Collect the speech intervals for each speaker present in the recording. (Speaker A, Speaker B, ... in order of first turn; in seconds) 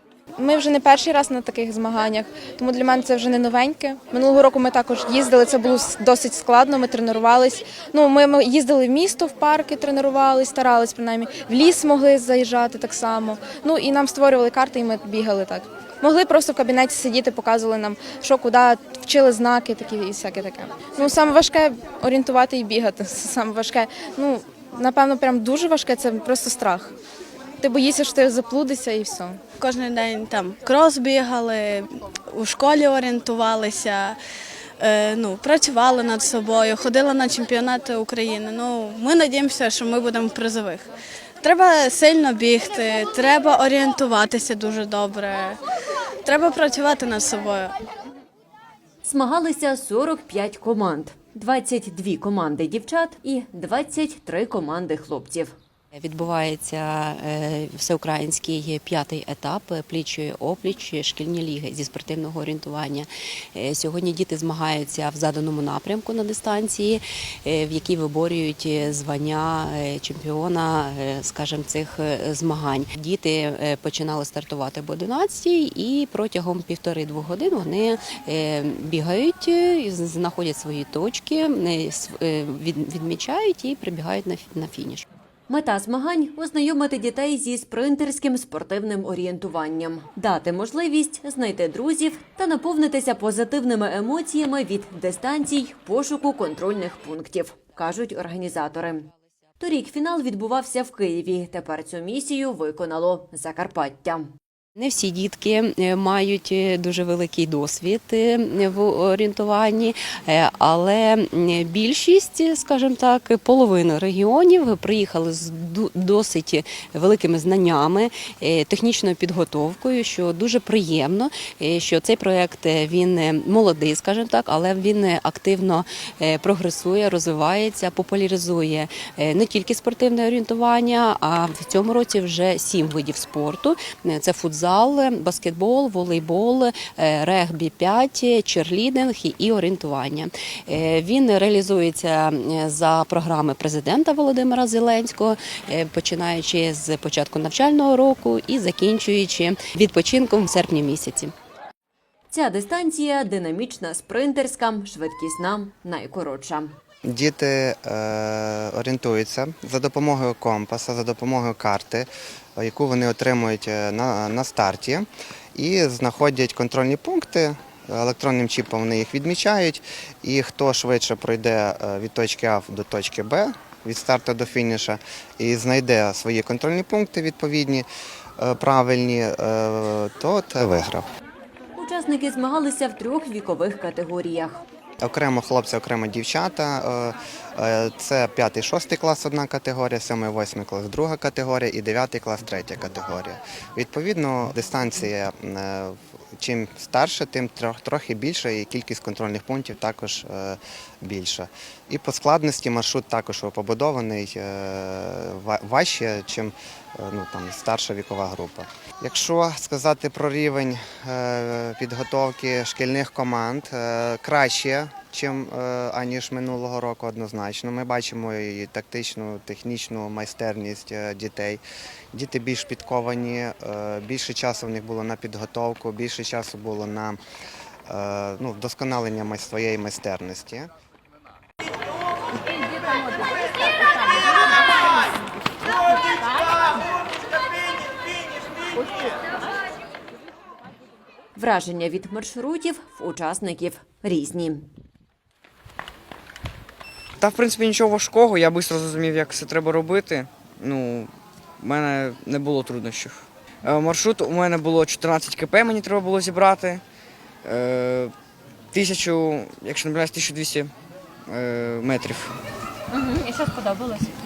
Speaker A: 0.4-26.9, 27.6-29.4
Speaker B: 29.6-34.2, 34.8-40.9, 41.4-45.6, 46.3-47.7
Speaker C: 49.0-55.5, 85.5-99.1, 99.6-104.3, 152.3-156.7, 181.8-184.6, 241.4-244.7
Speaker D: 56.0-85.0, 104.8-151.3
Speaker E: 157.1-177.9, 178.4-181.1, 185.0-221.6, 222.1-227.2, 227.9-230.7
Speaker F: 232.6-235.2, 235.9-236.7, 262.9-264.1
Speaker G: 247.2-256.8, 257.4-258.1, 258.7-260.7, 261.3-262.4